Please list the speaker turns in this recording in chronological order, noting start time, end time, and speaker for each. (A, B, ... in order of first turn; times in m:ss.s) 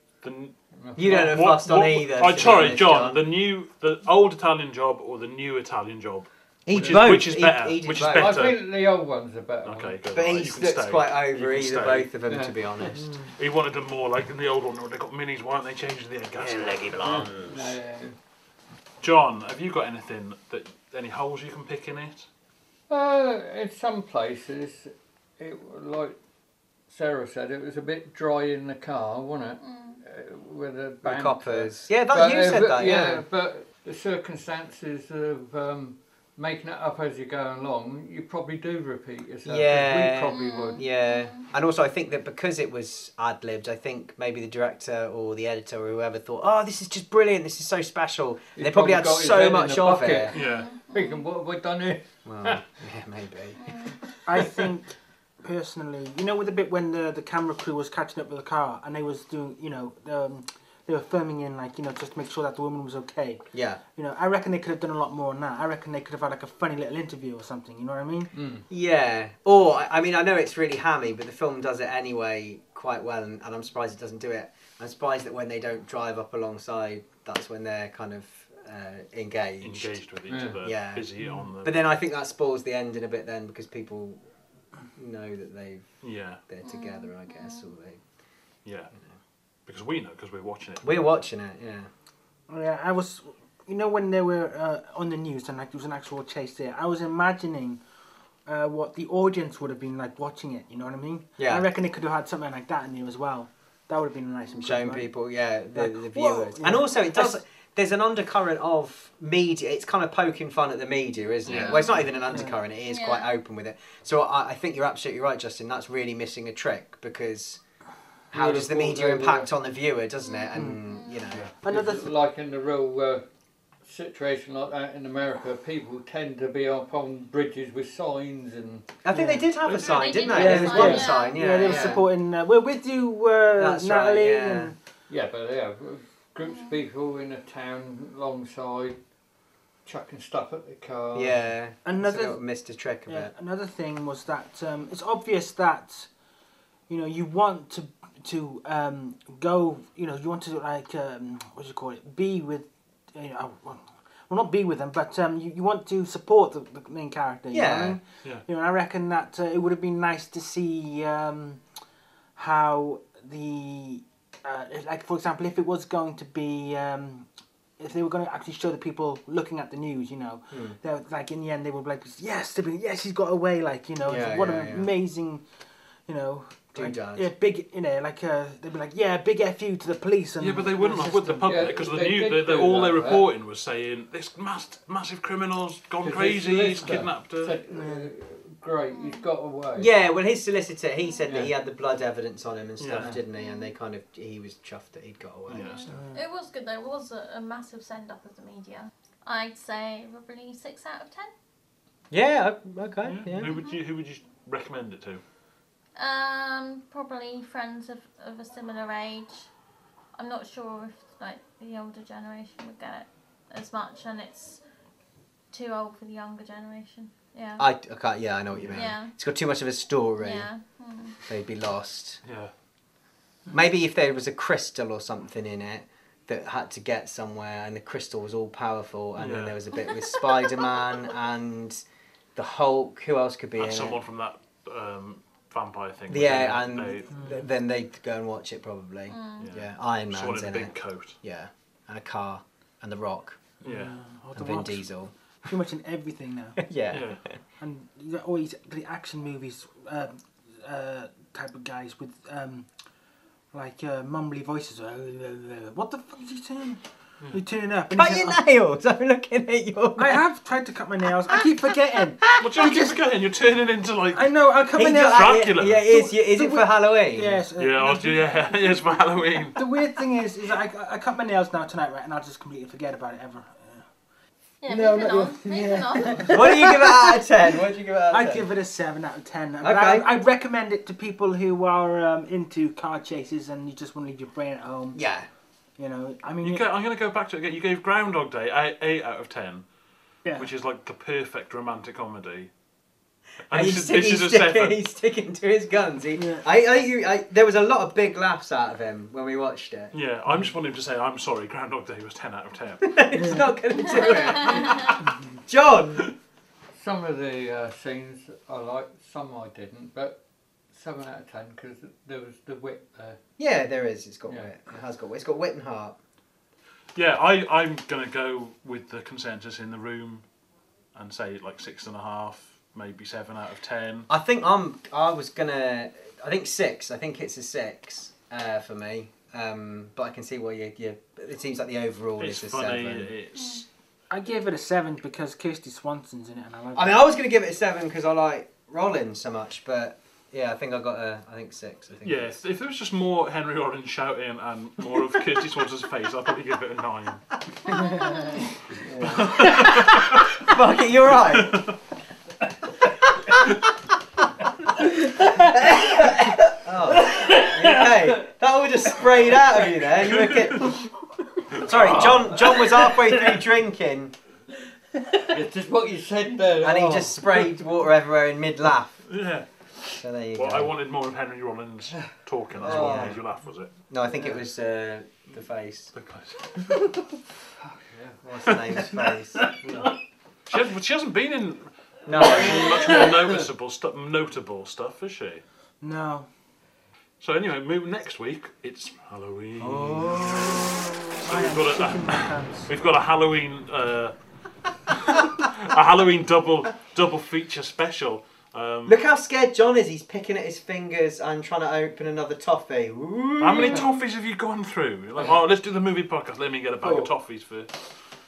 0:00.2-0:08.6 A
0:00.8-0:01.5 B
0:01.0-0:03.2 C
0:06.7-0:08.5 C
0:06.8-0:07.1 B
0:08.0-0:10.0 B
0:09.6-0:12.1 A
0:10.1-0:13.3 C
0:12.3-0:13.0 B
0:13.4-0:17.3 A
0:16.4-0:17.3 C
0:16.9-0:18.2 B
0:19.0-0:22.3 A
0:22.9-0:26.2 B
0:26.9-0:40.8 B
0:29.6-0:30.0 D
0:31.0-0:33.2 C
0:39.4-0:50.3 C
0:40.3-0:41.4 D
0:48.6-0:50.4 B
0:50.3-0:50.7 A
0:50.3-0:51.2 D
0:50.9-0:52.6 B
0:52.3-0:53.6 C
0:53.6-0:54.0 D
0:54.2-0:54.6 B
0:54.3-1:03.4 E
1:03.5-1:03.8 C
1:04.0-1:08.3 E
1:08.3-1:08.7 B
1:08.7-1:20.0 C
1:19.6-1:21.8 A
1:20.3-1:20.6 B
1:20.6-1:21.1 C
1:21.6-1:24.2 C
1:25.0-1:25.9 C
1:26.0-1:26.4 A
1:26.5-1:28.0 C
1:26.6-1:27.7 D
1:28.6-1:28.9 A
1:29.7-1:31.1 A
1:30.8-1:31.9 C
1:32.5-1:37.8 E
1:38.5-1:45.1 E
1:41.4-1:41.6 C
1:44.6-1:57.6 C
1:45.8-1:47.4 E
1:51.5-1:51.8 A
1:51.5-1:52.1 D
1:52.8-1:53.3 D
1:58.3-1:59.5 B
1:58.3-2:01.5 C
2:00.2-2:01.1 D
2:00.5-2:00.8 E
2:01.3-2:03.3 B
2:01.6-2:02.1 E
2:03.8-2:08.9 B
2:09.0-2:12.1 C
2:09.1-2:09.5 E
2:09.7-2:12.0 D
2:10.3-2:14.8 E
2:13.6-2:14.7 C
2:15.1-2:19.0 B
2:16.4-2:16.8 D
2:19.8-2:21.5 B
2:21.1-2:23.3 C
2:21.8-2:22.4 E
2:23.1-2:26.1 E
2:26.9-2:41.6 E
2:37.5-2:38.0 C
2:42.4-2:55.4 E
2:50.5-2:50.8 C
2:54.0-2:54.9 C
2:56.1-3:01.5 E
2:56.8-2:57.3 C
3:00.4-3:07.6 A
3:01.3-3:03.3 B
3:06.0-3:09.9 B
3:07.7-3:08.1 E
3:08.9-3:09.2 D
3:09.8-3:15.8 C
3:11.3-3:11.5 B
3:12.8-3:13.2 A
3:13.3-3:13.7 D
3:15.5-3:16.0 A
3:15.6-3:21.3 D
3:15.9-3:16.2 E
3:22.1-3:23.5 C
3:23.1-3:25.2 A
3:23.5-3:23.8 D
3:26.0-3:29.5 D
3:30.2-3:34.6 D
3:35.5-3:37.7 D
3:37.6-3:40.5 C
3:38.6-3:38.8 A
3:38.7-3:39.1 D
3:40.2-3:41.2 D
3:41.2-3:42.2 C
3:42.2-3:42.5 A
3:43.5-3:51.8 C
3:49.2-3:49.6 A
3:52.4-3:54.0 C
3:53.6-3:57.2 A
3:56.1-4:03.4 C
3:57.1-3:57.4 E
3:59.1-3:59.5 D
3:59.4-4:01.2 A
4:03.6-4:04.0 A
4:03.6-4:04.9 E
4:04.3-4:05.1 C
4:05.4-4:06.6 E
4:06.7-4:07.2 C
4:06.9-4:07.2 A
4:07.6-4:12.7 E
4:13.5-4:18.4 E
4:17.9-4:20.2 C
4:20.0-4:23.0 E
4:22.4-4:24.3 A
4:24.1-4:28.8 E
4:24.8-4:27.4 C
4:24.9-4:25.9 A
4:27.6-4:29.6 A
4:29.6-4:33.8 E
4:34.6-4:36.7 D
4:34.7-4:37.2 E
4:36.3-4:38.4 C
4:38.1-4:45.0 E
4:39.6-4:40.1 C
4:44.9-4:45.3 C
4:45.8-4:46.6 E
4:46.4-4:49.6 A
4:50.4-4:52.5 A
4:53.5-4:54.8 A
4:53.5-4:59.9 C
4:56.2-4:56.4 E
4:59.9-5:02.9 A
5:02.8-5:06.1 C
5:03.1-5:03.6 E
5:03.8-5:05.0 D
5:06.8-5:10.2 B
5:10.7-5:13.2 B
5:13.4-5:16.0 C
5:14.3-5:14.8 B
5:17.0-5:20.2 A
5:21.0-5:24.1 A
5:24.1-5:33.1 C
5:32.2-5:33.6 A
5:34.1-5:37.1 E
5:36.8-5:42.4 C
5:42.0-5:47.2 A
5:47.8-5:48.1 C
5:47.8-5:48.3 D
5:48.8-5:51.8 C
5:49.1-5:50.4 A
5:51.4-5:51.8 A
5:52.8-5:53.5 C
5:55.4-6:00.8 C
5:57.0-5:58.3 B
6:00.0-6:00.8 A
6:01.6-6:04.1 C
6:01.8-6:02.9 B
6:05.3-6:07.5 B
6:06.6-6:09.0 C
6:09.1-6:09.5 A
6:10.0-6:10.7 C
6:10.3-6:13.7 A
6:12.6-6:13.2 B
6:12.6-6:13.2 C
6:13.9-6:15.9 C
6:15.9-6:16.7 A
6:17.6-6:19.8 B
6:18.2-6:19.5 C
6:19.6-6:19.9 A
6:20.5-6:25.4 A
6:22.1-6:23.1 C
6:22.4-6:23.4 B
6:25.8-6:26.3 E
6:27.2-6:34.2 A
6:29.6-6:31.1 C
6:31.2-6:32.7 E
6:34.9-6:39.0 A
6:38.9-6:43.9 C
6:43.4-6:47.7 A
6:46.8-6:47.1 B